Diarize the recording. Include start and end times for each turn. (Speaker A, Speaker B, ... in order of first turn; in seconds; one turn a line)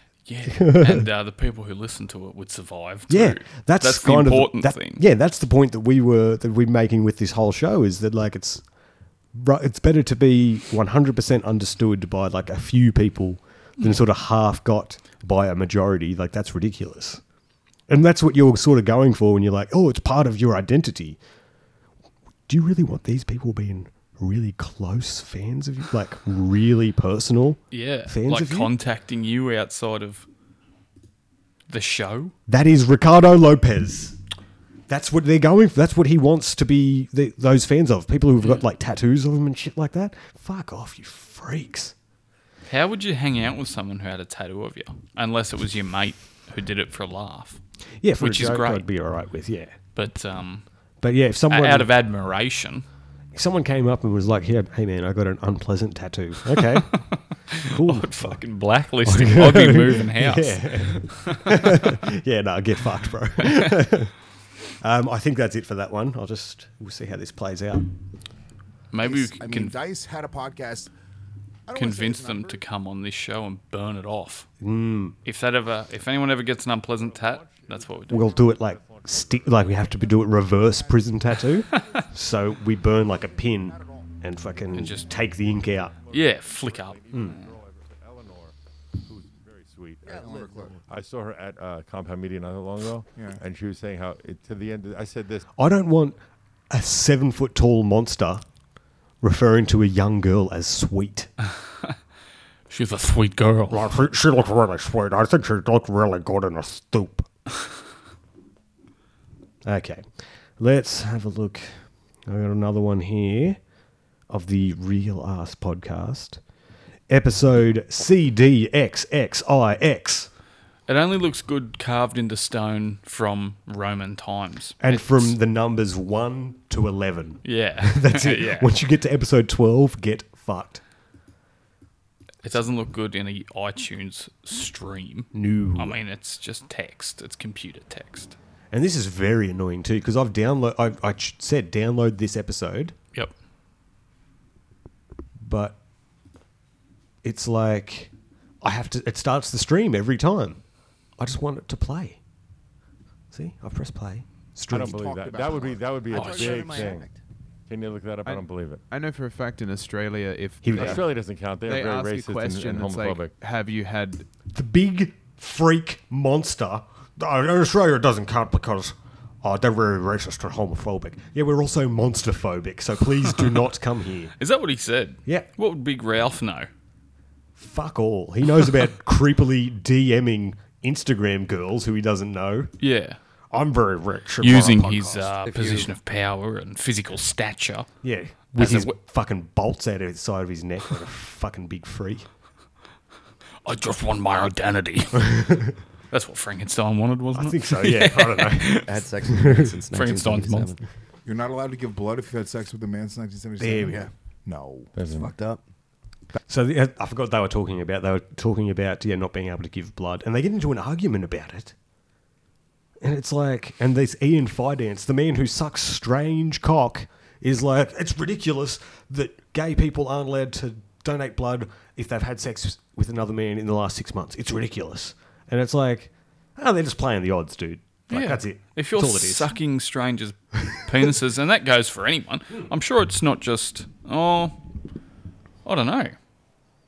Speaker A: 0.2-5.0
Speaker B: 0.5-1.1
Speaker B: 3.1-8.6
Speaker B: 9.3-17.2
Speaker B: 17.9-21.2
Speaker B: 22.5-28.7
Speaker A: 27.7-30.2
Speaker A: 31.7-32.3
Speaker B: 32.5-34.2
Speaker B: 34.9-41.9
Speaker A: 42.6-47.6
Speaker B: 48.0-49.8
Speaker A: 48.2-48.9
Speaker A: 49.9-50.6
Speaker B: 51.0-51.9
Speaker A: 51.5-52.8
Speaker B: 53.3-57.1
Speaker A: 56.6-61.8
Speaker B: 57.6-58.4
Speaker B: 59.0-64.1
Speaker B: 64.8-67.9
Speaker A: 68.9-69.7
Speaker C: 69.0-70.9
Speaker C: 71.7-72.6
Speaker A: 71.7-74.5
Speaker B: 74.6-75.2
Speaker A: 75.2-78.4
Speaker D: 76.9-80.0
Speaker B: 78.1-85.9
Speaker C: 80.6-82.1
Speaker C: 83.1-84.1
Speaker A: 84.7-85.1
Speaker D: 85.6-90.3
Speaker A: 86.1-87.5
Speaker E: 90.0-90.8
Speaker C: 90.1-90.8
Speaker D: 90.9-95.5
Speaker C: 93.1-93.4
Speaker B: 95.5-96.2
Speaker B: 96.7-98.4
Speaker B: 99.2-101.3
Speaker A: 102.7-103.9
Speaker B: 103.7-107.3
Speaker B: 109.6-110.0
Speaker B: 110.6-113.6
Speaker B: 114.3-116.4
Speaker B: 117.1-120.3
Speaker A: 120.9-125.4
Speaker B: 124.8-130.8
Speaker A: 127.4-128.7
Speaker A: 132.4-138.3
Speaker B: 135.3-136.0
Speaker B: 138.7-142.9
Speaker B: 145.4-145.8
Speaker B: 147.2-150.6
Speaker B: 151.2-152.2
Speaker B: 153.3-155.0
Speaker D: 154.7-157.1
Speaker C: 154.7-157.0
Speaker E: 156.1-157.2
Speaker A: 156.1-156.6
Speaker D: 157.7-158.8
Speaker F: 158.2-164.3
Speaker B: 160.6-161.0
Speaker D: 160.7-163.3
Speaker B: 164.5-174.3
Speaker A: 174.4-176.7
Speaker B: 177.6-182.7
Speaker A: 182.8-183.2
Speaker B: 183.5-185.3
Speaker A: 184.4-187.9
Speaker E: 185.4-185.9
Speaker B: 188.0-192.3
Speaker A: 188.5-188.9
Speaker A: 193.6-195.4
Speaker B: 195.3-195.6
Speaker A: 196.1-198.9
Speaker B: 197.3-198.8
Speaker E: 198.8-200.8
Speaker A: 199.9-200.7
Speaker C: 201.2-204.9
Speaker B: 203.6-204.0
Speaker D: 204.9-205.3
Speaker E: 205.1-205.6
Speaker B: 206.5-211.7
Speaker B: 213.0-229.6
Speaker A: 228.1-234.6
Speaker A: 235.6-236.2